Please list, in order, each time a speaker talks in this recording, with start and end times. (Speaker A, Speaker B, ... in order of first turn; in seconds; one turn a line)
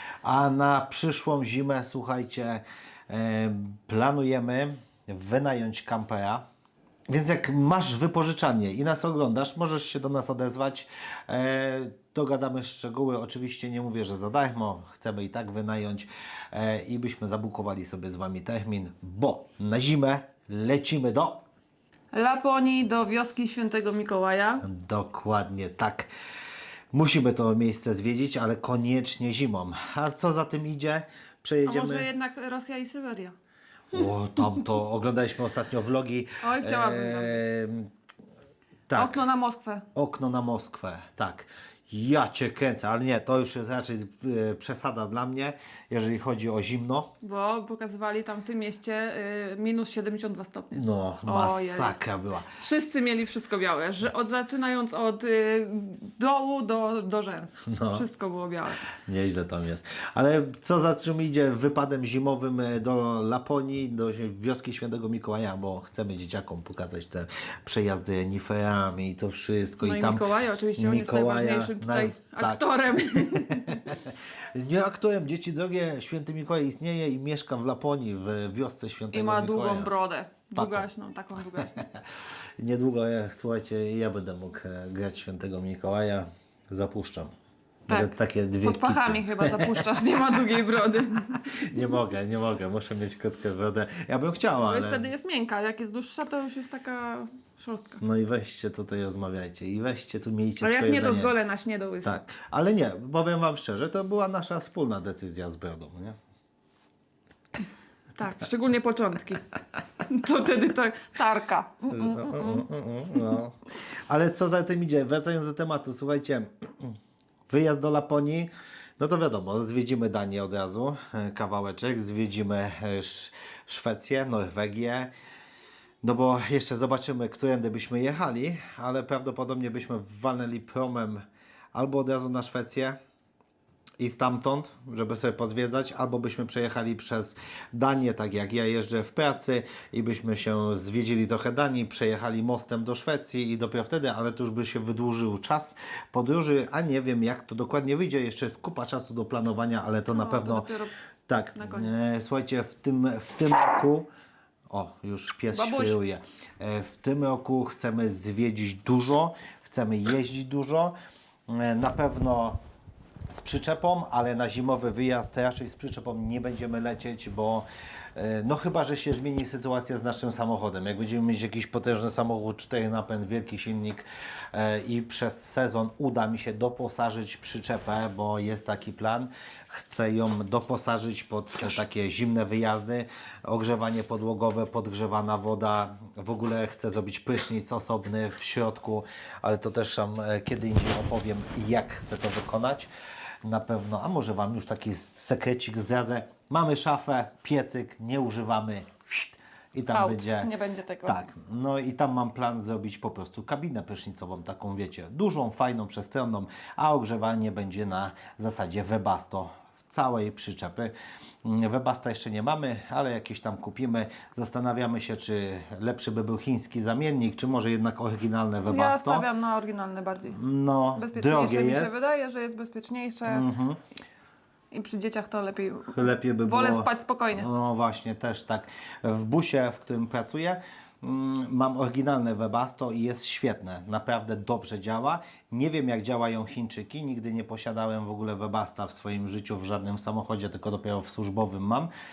Speaker A: 0.2-6.4
Speaker A: 7.1-21.4
Speaker B: 22.1-24.6
Speaker A: 24.6-26.1
Speaker A: 26.9-32.1
Speaker B: 31.6-33.3
Speaker A: 33.9-37.9
Speaker B: 36.4-37.4
Speaker A: 38.9-39.2
Speaker B: 39.0-39.9
Speaker A: 40.0-47.1
Speaker B: 47.2-52.0
Speaker A: 50.7-52.5
Speaker B: 52.5-58.9
Speaker A: 57.6-58.1
Speaker A: 59.1-70.2
Speaker B: 69.8-74.0
Speaker A: 70.8-79.9
Speaker B: 79.1-81.9
Speaker A: 80.5-80.9
Speaker A: 81.6-82.0
Speaker A: 82.6-87.3
Speaker A: 87.9-90.0
Speaker B: 87.9-91.7
Speaker A: 91.3-95.1
Speaker B: 94.6-98.0
Speaker A: 98.0-101.3
Speaker B: 100.6-102.2
Speaker A: 102.0-106.2
Speaker B: 108.2-109.5
Speaker B: 110.0-112.7
Speaker A: 111.9-117.0
Speaker A: 117.5-125.1
Speaker A: 126.0-133.0
Speaker A: 134.0-150.7
Speaker B: 150.1-150.9
Speaker A: 151.3-154.1
Speaker B: 151.6-151.9
Speaker A: 154.7-160.9
Speaker B: 155.5-156.0
Speaker A: 161.5-162.6
Speaker A: 163.3-192.9
Speaker A: 193.4-200.5
Speaker B: 199.9-201.2
Speaker A: 201.1-219.3
Speaker B: 218.7-220.4
Speaker A: 220.3-222.0
Speaker B: 220.9-223.5
Speaker A: 223.3-223.8
Speaker B: 224.7-227.5
Speaker A: 225.9-241.9